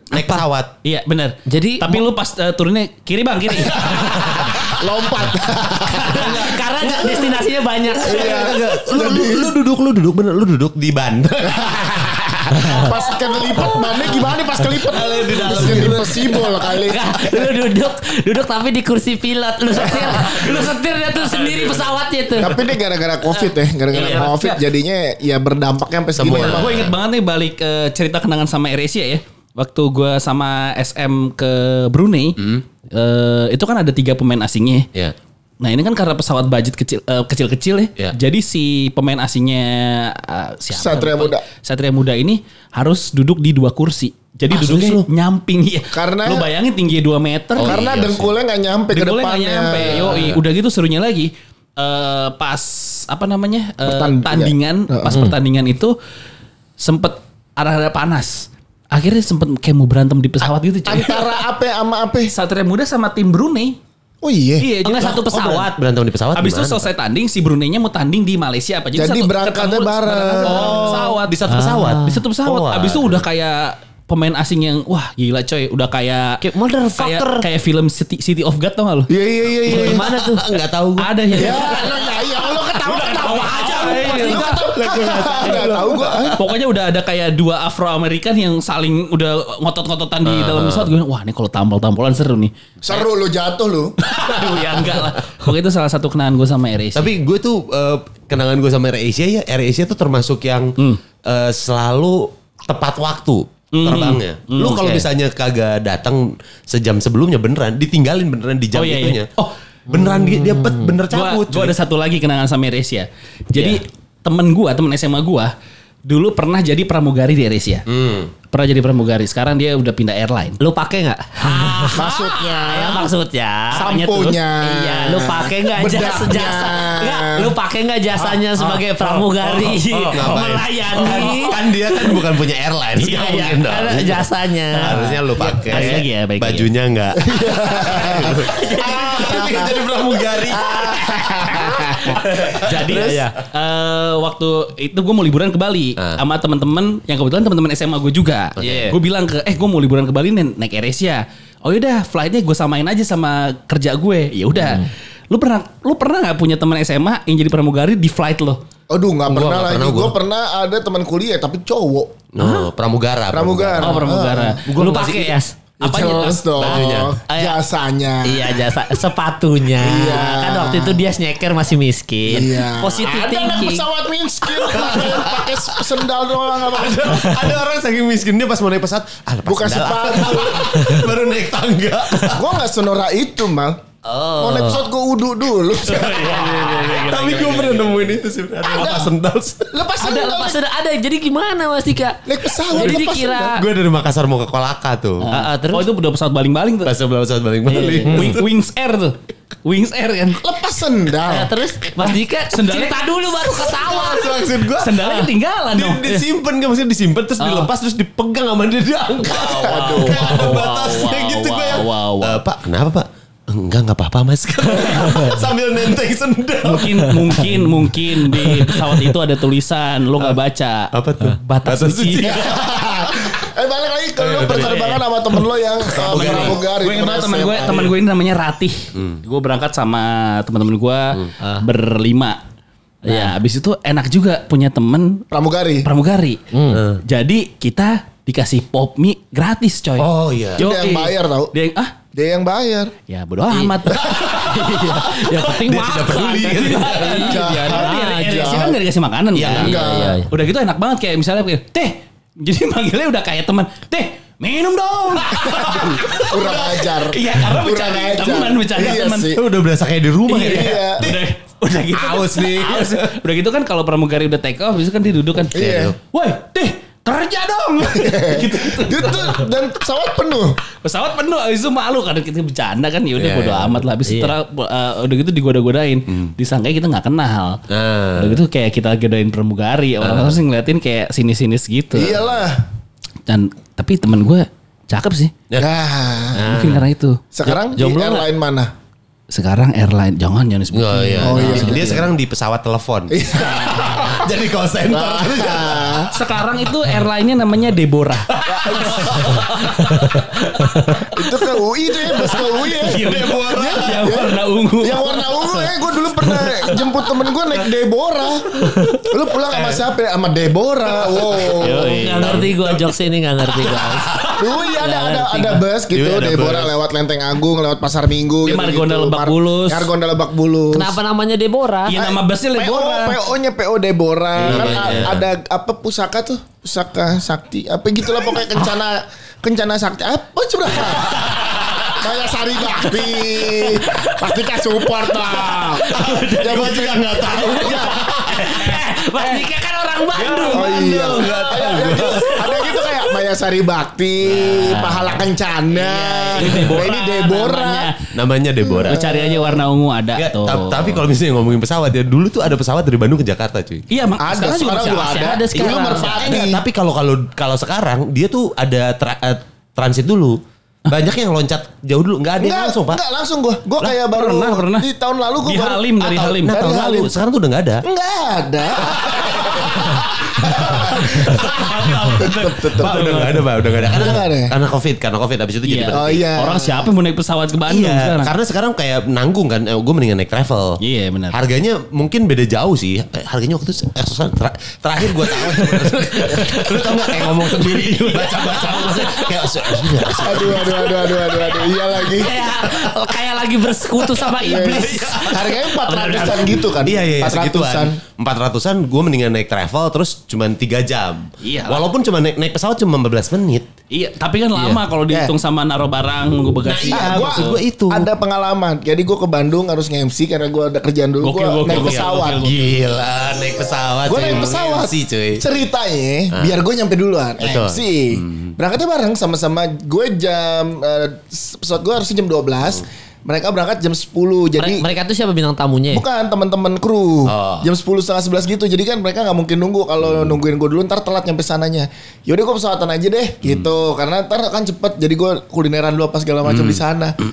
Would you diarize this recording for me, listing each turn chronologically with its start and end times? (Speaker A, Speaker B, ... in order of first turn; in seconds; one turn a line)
Speaker A: 0.1-0.7
Speaker B: 0.8-4.3
Speaker C: 1.5-2.1
Speaker A: 3.8-4.7
Speaker D: 4.2-7.0
Speaker C: 5.8-8.6
Speaker A: 5.9-7.3
Speaker D: 8.0-9.6
Speaker A: 8.0-12.5
Speaker D: 12.5-17.5
Speaker C: 12.5-12.9
Speaker A: 14.8-16.5
Speaker C: 15.6-15.9
Speaker C: 16.8-22.7
Speaker B: 20.1-22.5
Speaker D: 22.4-26.9
Speaker B: 23.4-24.6
Speaker A: 26.2-26.9
Speaker B: 26.2-34.9
Speaker B: 35.6-47.8
Speaker D: 40.7-41.4
Speaker A: 44.5-45.1
Speaker D: 45.9-46.5
Speaker A: 47.6-48.3
Speaker D: 47.6-50.4
Speaker B: 48.9-56.0
Speaker A: 49.8-50.4
Speaker D: 53.9-55.2
Speaker B: 56.8-61.4
Speaker D: 60.9-62.3
Speaker B: 62.3-63.8
Speaker D: 64.2-64.7
Speaker B: 64.6-65.7
Speaker C: 64.8-65.8
Speaker A: 65.3-66.9
Speaker B: 66.3-76.4
Speaker D: 68.9-71.2
Speaker A: 70.5-73.2
Speaker C: 71.5-72.2
Speaker C: 76.4-77.5
Speaker B: 77.0-79.1
Speaker D: 79.1-80.0
Speaker A: 79.4-81.6
Speaker C: 79.7-80.6
Speaker B: 81.0-92.5
Speaker D: 81.3-86.5
Speaker C: 83.2-86.0
Speaker A: 84.9-85.5
Speaker A: 90.2-90.9
Speaker D: 92.8-94.0
Speaker B: 94.0-97.1
Speaker A: 97.0-109.3
Speaker B: 103.7-105.1
Speaker B: 108.7-109.5
Speaker A: 109.9-111.7
Speaker C: 109.9-111.0
Speaker B: 111.1-115.5
Speaker B: 116.1-117.8
Speaker A: 117.9-118.3
Speaker B: 118.5-120.6
Speaker C: 120.6-123.9
Speaker B: 121.4-122.0
Speaker D: 121.9-123.1
Speaker B: 123.7-124.4
Speaker D: 123.7-127.5
Speaker C: 124.6-132.2
Speaker B: 128.2-129.7
Speaker A: 129.9-141.0
Speaker C: 133.0-135.1
Speaker B: 134.8-136.7
Speaker C: 135.7-136.0
Speaker D: 137.2-139.7
Speaker C: 137.8-139.7
Speaker D: 140.5-142.2
Speaker C: 140.5-142.2
Speaker B: 142.1-158.6
Speaker A: 142.1-143.3
Speaker C: 142.9-143.2
Speaker A: 148.6-149.0
Speaker D: 158.9-162.2
Speaker A: 159.3-160.1
Speaker A: 162.3-164.1
Speaker D: 163.3-164.6
Speaker B: 163.8-164.7
Speaker A: 164.7-165.4
Speaker C: 164.7-165.5
Speaker D: 165.8-168.6
Speaker B: 165.8-166.6
Speaker A: 166.6-167.2
Speaker C: 168.2-173.9
Speaker D: 169.8-171.0
Speaker D: 172.3-177.4
Speaker A: 174.7-175.8
Speaker A: 176.7-182.4
Speaker D: 179.5-180.9
Speaker D: 182.3-183.8
Speaker C: 184.1-184.8
Speaker D: 184.4-186.8
Speaker B: 185.8-188.1
Speaker A: 186.8-189.7
Speaker D: 188.6-189.1
Speaker D: 189.7-190.6
Speaker C: 190.0-193.6
Speaker D: 192.3-193.6
Speaker A: 193.6-195.3
Speaker B: 195.2-196.9
Speaker C: 195.3-195.9
Speaker A: 196.8-198.5
Speaker B: 197.7-200.4
Speaker C: 198.0-198.3
Speaker D: 200.4-201.5
Speaker C: 201.2-204.4
Speaker B: 202.0-203.1
Speaker A: 203.5-205.0
Speaker B: 204.8-206.3
Speaker C: 205.0-205.3
Speaker A: 205.7-217.4
Speaker B: 207.4-207.7
Speaker D: 209.2-210.6
Speaker B: 209.3-212.4
Speaker C: 214.9-215.4
Speaker B: 216.6-222.4
Speaker C: 218.3-219.1
Speaker A: 220.9-223.4
Speaker D: 222.2-228.0
Speaker A: 224.2-225.0
Speaker B: 224.5-225.0
Speaker A: 225.9-226.6
Speaker B: 226.1-232.4
Speaker A: 228.9-229.2
Speaker B: 233.0-235.3
Speaker C: 233.1-233.3
Speaker D: 235.3-235.9
Speaker B: 235.8-236.4
Speaker C: 236.5-236.8
Speaker B: 237.0-241.9
Speaker A: 240.0-240.7
Speaker D: 240.6-241.5
Speaker D: 242.1-242.9
Speaker B: 243.1-244.6
Speaker C: 243.6-248.7
Speaker A: 243.9-247.4
Speaker B: 246.4-259.4
Speaker D: 247.2-248.8
Speaker A: 249.3-249.8
Speaker D: 249.5-250.2
Speaker C: 249.5-250.3
Speaker D: 255.4-259.4
Speaker A: 255.4-256.6
Speaker A: 259.3-261.2
Speaker B: 260.3-269.5
Speaker D: 260.3-261.1
Speaker A: 261.8-263.1
Speaker A: 265.5-265.9
Speaker D: 265.5-265.9
Speaker D: 267.9-270.6
Speaker B: 270.8-277.6
Speaker A: 273.2-273.8
Speaker C: 274.1-274.4
Speaker A: 277.7-278.4
Speaker B: 278.2-282.2
Speaker A: 280.0-280.4
Speaker D: 281.9-282.6
Speaker B: 283.3-285.3
Speaker D: 285.6-286.6
Speaker A: 286.3-286.8
Speaker B: 286.5-287.2
Speaker D: 287.3-288.7
Speaker C: 287.5-288.3
Speaker B: 289.3-292.1
Speaker A: 290.7-296.1
Speaker D: 291.2-292.1
Speaker D: 293.1-294.3
Speaker D: 294.9-296.1
Speaker B: 296.1-298.3
Speaker A: 298.3-299.7
Speaker D: 298.5-299.5
Speaker B: 299.0-299.4
Speaker C: 300.6-301.0
Speaker D: 301.0-312.1
Speaker B: 302.1-306.9
Speaker A: 302.9-304.2
Speaker A: 309.5-309.8
Speaker A: 311.3-311.6
Speaker B: 311.5-312.5
Speaker C: 311.9-314.1
Speaker A: 312.2-313.0
Speaker A: 313.6-314.4
Speaker D: 314.4-321.0
Speaker B: 314.7-315.6
Speaker A: 315.9-316.8
Speaker B: 318.4-319.9
Speaker C: 320.7-322.0
Speaker B: 321.9-323.2
Speaker D: 321.9-331.3
Speaker B: 324.4-325.1
Speaker A: 324.4-325.2
Speaker D: 331.9-338.0
Speaker C: 333.8-334.3
Speaker C: 335.4-343.0
Speaker A: 335.9-338.6
Speaker B: 338.3-339.5
Speaker B: 340.1-341.1
Speaker D: 340.5-347.9
Speaker A: 340.7-342.4
Speaker B: 344.3-348.1
Speaker A: 348.1-349.0
Speaker D: 348.7-349.7
Speaker B: 348.8-351.0
Speaker A: 350.2-353.9
Speaker B: 353.9-355.5
Speaker D: 354.2-356.6
Speaker C: 355.0-356.3
Speaker A: 355.6-363.0
Speaker D: 362.4-367.1
Speaker B: 363.8-364.9
Speaker B: 365.4-366.7
Speaker A: 366.0-367.8
Speaker D: 367.8-373.0
Speaker A: 369.0-372.1
Speaker B: 370.7-373.9
Speaker A: 372.8-376.3
Speaker D: 373.9-374.5
Speaker B: 375.7-378.3
Speaker D: 375.9-376.9
Speaker A: 377.7-380.8
Speaker B: 380.8-381.4
Speaker A: 381.3-391.2
Speaker B: 387.3-390.1
Speaker D: 390.2-392.5
Speaker C: 392.0-396.7
Speaker D: 394.4-398.0
Speaker A: 394.6-395.4
Speaker A: 396.7-403.7
Speaker B: 401.4-401.9
Speaker B: 403.9-407.6
Speaker A: 406.6-408.1
Speaker D: 406.9-412.5
Speaker B: 411.2-412.8
Speaker A: 411.7-415.5
Speaker D: 414.1-424.9
Speaker A: 417.4-418.5
Speaker C: 424.6-426.0
Speaker D: 425.9-437.2
Speaker A: 427.2-427.7